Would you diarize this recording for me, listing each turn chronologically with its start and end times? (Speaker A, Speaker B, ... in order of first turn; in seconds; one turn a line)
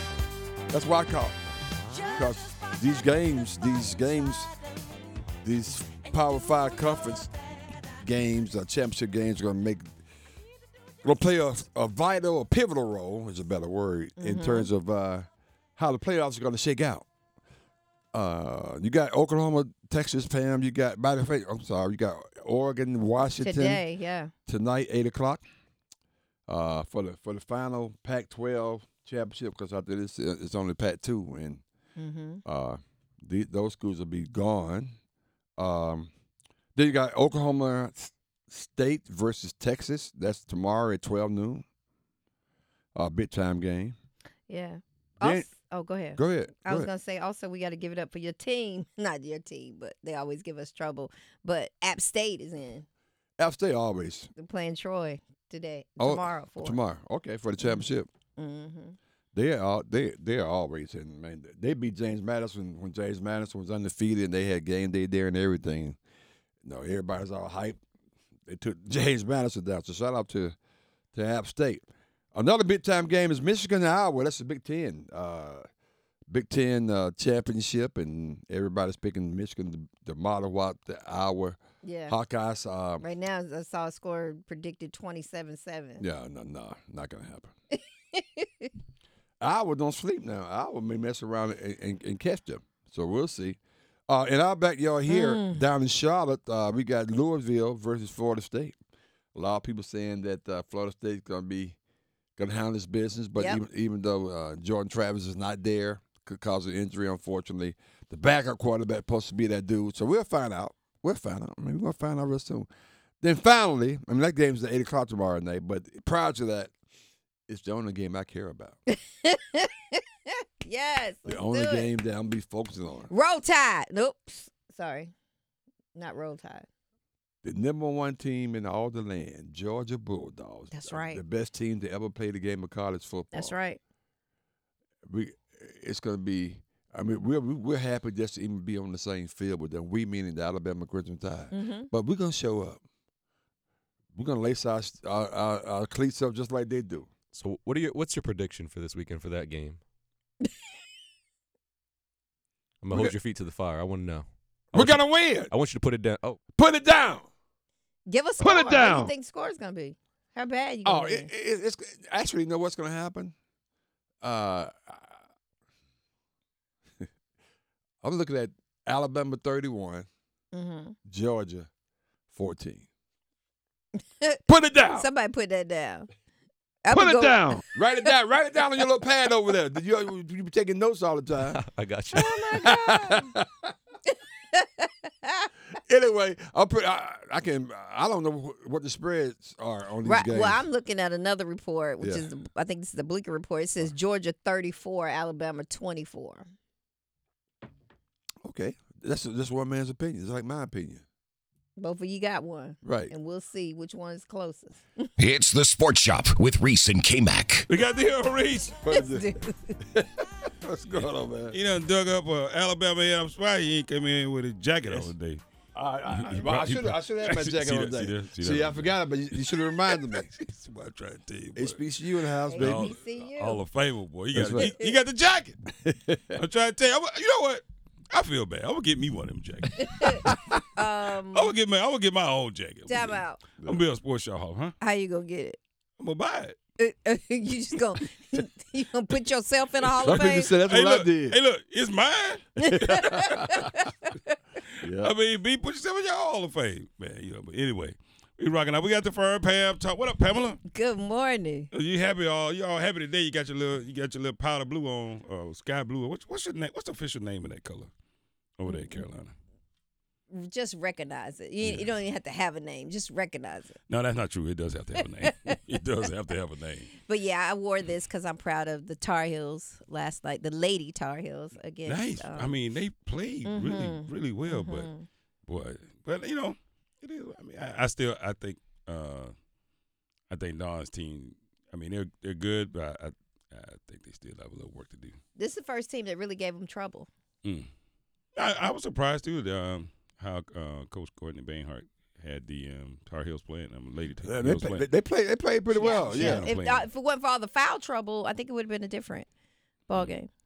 Speaker A: 0.7-1.4
Speaker A: 2.1-4.5
Speaker A: 5.4-7.3
Speaker A: 8.0-9.9
Speaker A: 11.0-17.1
Speaker B: 14.2-14.7
Speaker A: 18.1-23.8
Speaker B: 23.4-24.3
Speaker A: 24.5-25.4
Speaker A: 26.5-31.6
Speaker B: 32.0-32.4
Speaker A: 32.5-34.9
Speaker A: 35.6-36.1
Speaker A: 36.8-41.6
Speaker A: 43.0-43.9
Speaker B: 44.5-52.9
Speaker A: 45.2-45.5
Speaker A: 46.1-46.9
Speaker A: 53.4-54.3
Speaker B: 54.4-56.8
Speaker A: 56.0-58.1
Speaker B: 58.4-59.0
Speaker A: 59.3-66.0
Speaker A: 66.6-67.8
Speaker A: 68.5-70.5
Speaker A: 71.1-75.7
Speaker A: 76.3-83.0
Speaker B: 81.8-82.2
Speaker B: 83.0-86.0
Speaker A: 86.0-87.5
Speaker B: 87.7-88.7
Speaker A: 89.4-98.8
Speaker B: 95.1-95.6
Speaker A: 99.3-101.8
Speaker A: 102.4-112.7
Speaker A: 113.2-116.7
Speaker A: 117.5-118.8
Speaker B: 118.9-121.9
Speaker A: 121.3-123.1
Speaker B: 123.1-125.1
Speaker B: 126.0-126.7
Speaker A: 127.4-133.5
Speaker B: 130.7-131.2
Speaker B: 133.3-133.8
Speaker A: 135.1-142.8
Speaker B: 141.5-141.9
Speaker A: 144.2-147.1
Speaker C: 147.3-149.8
Speaker C: 152.8-156.4
Speaker A: 152.9-153.2
Speaker A: 154.7-155.5
Speaker A: 156.6-157.3
Speaker B: 158.1-161.3
Speaker A: 158.4-159.1
Speaker A: 160.8-163.3
Speaker A: 164.2-165.2
Speaker A: 168.0-170.1
Speaker B: 170.5-171.0
Speaker A: 171.1-171.7
Speaker A: 172.3-172.9
Speaker A: 174.5-175.1
Speaker B: 174.9-176.1
Speaker B: 176.8-178.1
Speaker A: 176.9-181.6
Speaker C: 181.5-182.3
Speaker A: 182.1-183.5
Speaker B: 182.2-183.3
Speaker B: 184.5-185.5
Speaker A: 185.8-190.7
Speaker B: 190.0-196.5
Speaker A: 192.0-192.3
Speaker A: 198.4-201.0
Speaker B: 201.8-205.1
Speaker A: 202.8-203.1
Speaker D: 205.3-207.6
Speaker E: 207.7-208.8
Speaker A: 208.8-209.3
Speaker B: 208.9-209.8
Speaker A: 209.9-211.6
Speaker E: 211.5-215.4
Speaker A: 214.8-215.1
Speaker A: 215.8-220.3
Speaker E: 216.1-221.8
Speaker A: 221.6-222.9
Speaker B: 222.5-223.6
Speaker E: 222.6-225.6
Speaker A: 224.3-224.8
Speaker B: 224.6-224.9
Speaker A: 225.8-226.4
Speaker E: 226.3-230.4
Speaker B: 229.9-230.2
Speaker A: 230.0-230.6
Speaker B: 230.8-231.6
Speaker E: 231.3-234.7
Speaker B: 232.9-233.4
Speaker B: 234.8-235.6
Speaker E: 236.0-236.6
Speaker B: 236.8-240.5
Speaker A: 240.0-241.4
Speaker E: 240.0-243.3
Speaker B: 242.6-244.4
Speaker A: 242.7-243.7
Speaker E: 244.8-250.6
Speaker A: 244.8-245.1
Speaker B: 250.7-251.7
Speaker E: 251.7-257.9
Speaker E: 258.6-259.3
Speaker B: 258.7-259.0
Speaker B: 260.3-263.8
Speaker E: 261.6-261.9
Speaker E: 263.9-266.9
Speaker B: 265.2-265.5
Speaker B: 267.0-272.5
Speaker E: 271.9-274.9
Speaker B: 273.4-275.1
Speaker E: 275.5-279.3
Speaker E: 280.3-285.2
Speaker B: 285.4-287.1
Speaker E: 287.4-287.7
Speaker E: 288.4-294.9
Speaker A: 294.2-296.5
Speaker B: 295.8-299.3
Speaker E: 295.8-296.9
Speaker B: 299.9-300.3